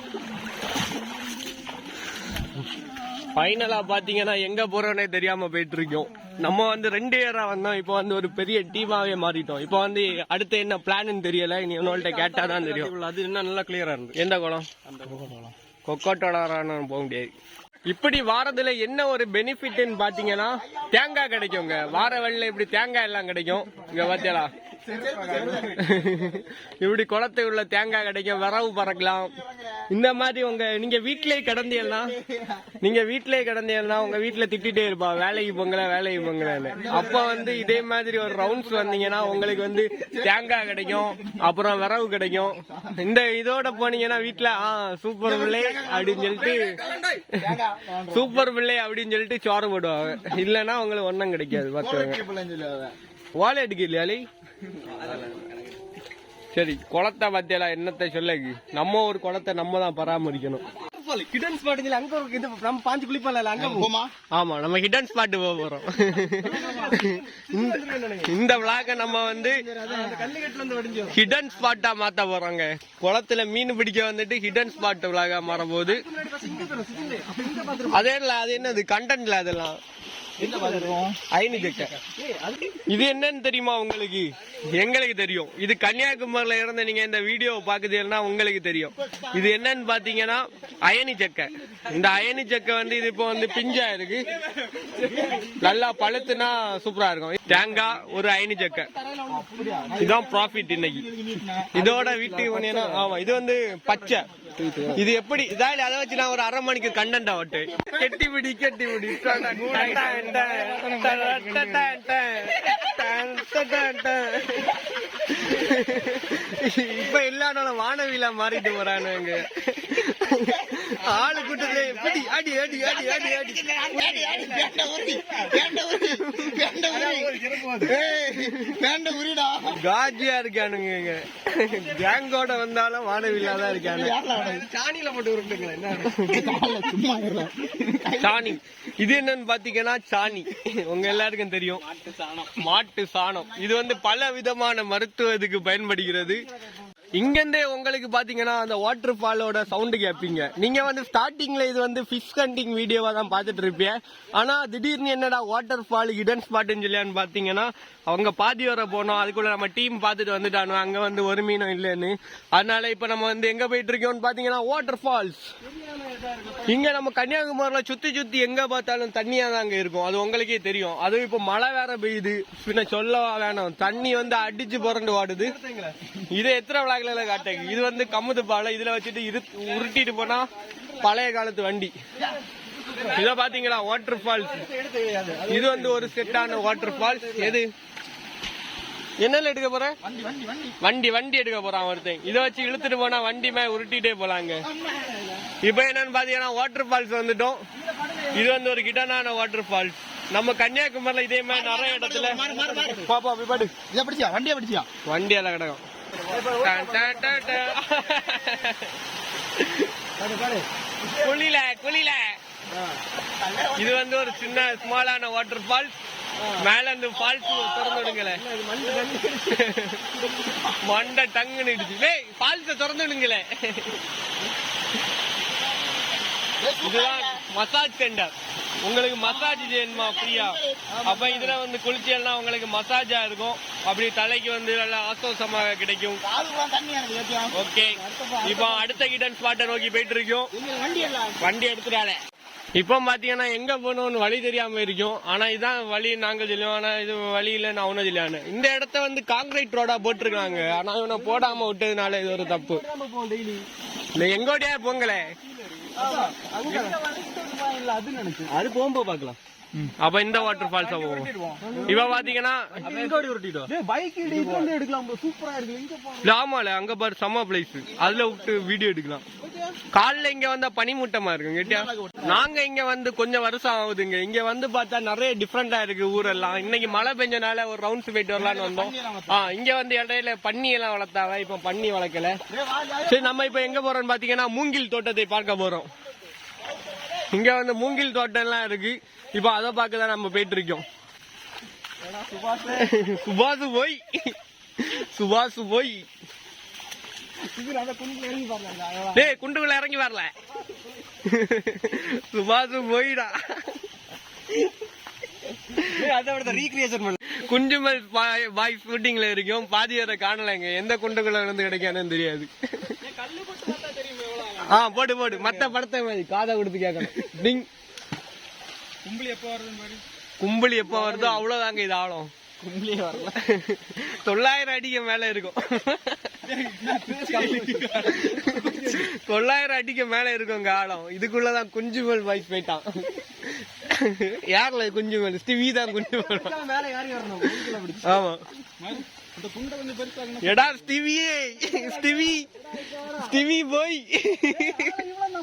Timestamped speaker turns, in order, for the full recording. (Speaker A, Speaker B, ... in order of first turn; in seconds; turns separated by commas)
Speaker A: 3.3-13.0, Speaker B: 11.8-14.2, Speaker A: 14.1-14.7, Speaker B: 14.9-15.5, Speaker A: 15.8-17.3, Speaker A: 17.9-24.5, Speaker C: 20.9-21.6, Speaker B: 24.9-25.8, Speaker C: 24.9-25.9, Speaker A: 25.7-29.3, Speaker C: 29.3-29.8, Speaker A: 29.9-32.1, Speaker C: 32.3-32.6, Speaker A: 32.8-46.7, Speaker C: 36.7-37.7, Speaker C: 45.2-48.3, Speaker A: 48.1-52.2, Speaker C: 51.8-53.0, Speaker A: 53.3-54.2, Speaker B: 54.7-55.7, Speaker A: 56.5-60.6, Speaker B: 60.8-63.9, Speaker C: 63.6-64.1, Speaker A: 64.3-69.6, Speaker B: 66.4-68.4, Speaker C: 68.9-70.3, Speaker B: 69.8-71.2, Speaker A: 71.1-76.0, Speaker B: 75.7-78.1, Speaker A: 77.9-79.8, Speaker B: 80.4-81.0, Speaker C: 80.4-81.2, Speaker A: 81.3-81.9, Speaker B: 81.7-82.8, Speaker A: 82.9-94.3, Speaker B: 95.0-95.5, Speaker A: 95.5-98.9, Speaker B: 98.9-100.2, Speaker C: 99.3-101.7, Speaker A: 100.0-101.1, Speaker A: 101.7-104.3, Speaker B: 101.7-103.1, Speaker B: 104.5-105.0, Speaker A: 104.9-123.7, Speaker B: 109.3-111.9, Speaker C: 121.2-121.9, Speaker C: 122.8-129.8, Speaker B: 123.9-124.8, Speaker B: 126.8-127.9, Speaker A: 128.5-128.8, Speaker A: 129.7-134.2, Speaker C: 133.6-134.7, Speaker B: 134.2-136.4, Speaker A: 136.0-136.4, Speaker C: 136.2-138.5, Speaker A: 138.2-141.8, Speaker B: 141.9-142.5, Speaker A: 142.5-146.4, Speaker A: 147.1-165.4, Speaker B: 165.7-166.8, Speaker A: 166.7-175.5, Speaker B: 175.4-175.9, Speaker A: 176.3-181.9, Speaker B: 182.7-183.2, Speaker A: 183.0-184.6, Speaker B: 184.3-187.6, Speaker A: 185.5-187.7, Speaker A: 189.2-189.9, Speaker C: 190.1-190.8, Speaker A: 190.8-194.7, Speaker C: 194.7-195.4, Speaker A: 195.6-197.6, Speaker B: 197.8-198.4, Speaker A: 198.3-202.4, Speaker C: 201.5-203.1, Speaker B: 202.4-203.0, Speaker A: 203.0-203.7, Speaker C: 203.9-204.9, Speaker A: 205.0-205.8, Speaker B: 206.2-207.6, Speaker A: 206.4-209.0, Speaker A: 209.5-209.9, Speaker B: 210.2-210.7, Speaker A: 211.1-212.4, Speaker C: 213.4-214.0, Speaker A: 213.7-216.0, Speaker A: 216.6-218.4, Speaker C: 217.3-218.0, Speaker B: 218.3-219.6, Speaker A: 219.4-220.1, Speaker A: 220.8-224.0, Speaker C: 226.6-227.4, Speaker A: 226.8-236.2, Speaker C: 229.4-231.0, Speaker B: 231.0-231.5, Speaker C: 236.2-237.6, Speaker A: 237.5-240.5, Speaker B: 237.9-238.8, Speaker C: 240.5-241.5, Speaker A: 241.4-242.2, Speaker A: 242.7-252.8, Speaker B: 251.1-251.6, Speaker B: 252.2-253.7, Speaker A: 254.1-255.3, Speaker B: 255.9-257.0, Speaker B: 258.4-259.4, Speaker A: 260.0-261.3, Speaker B: 261.6-266.2, Speaker A: 261.8-263.7, Speaker A: 266.2-269.2, Speaker C: 267.9-268.6, Speaker B: 269.4-269.8, Speaker A: 269.9-282.4, Speaker C: 271.7-272.4, Speaker C: 278.3-279.4, Speaker C: 282.6-283.4, Speaker A: 283.0-285.9, Speaker A: 287.3-290.9, Speaker B: 292.0-292.9, Speaker A: 292.6-296.1, Speaker B: 297.5-299.2, Speaker A: 299.1-300.3, Speaker A: 301.2-303.8, Speaker B: 305.9-307.2, Speaker A: 307.3-313.0, Speaker B: 313.0-315.7, Speaker A: 314.5-317.7, Speaker B: 319.1-320.0, Speaker A: 320.4-322.3, Speaker B: 320.9-321.4, Speaker B: 322.6-323.4, Speaker A: 323.3-326.4, Speaker B: 326.6-329.1, Speaker A: 327.2-336.6, Speaker B: 336.2-338.2, Speaker A: 338.0-338.4, Speaker A: 340.4-342.5, Speaker A: 343.0-345.1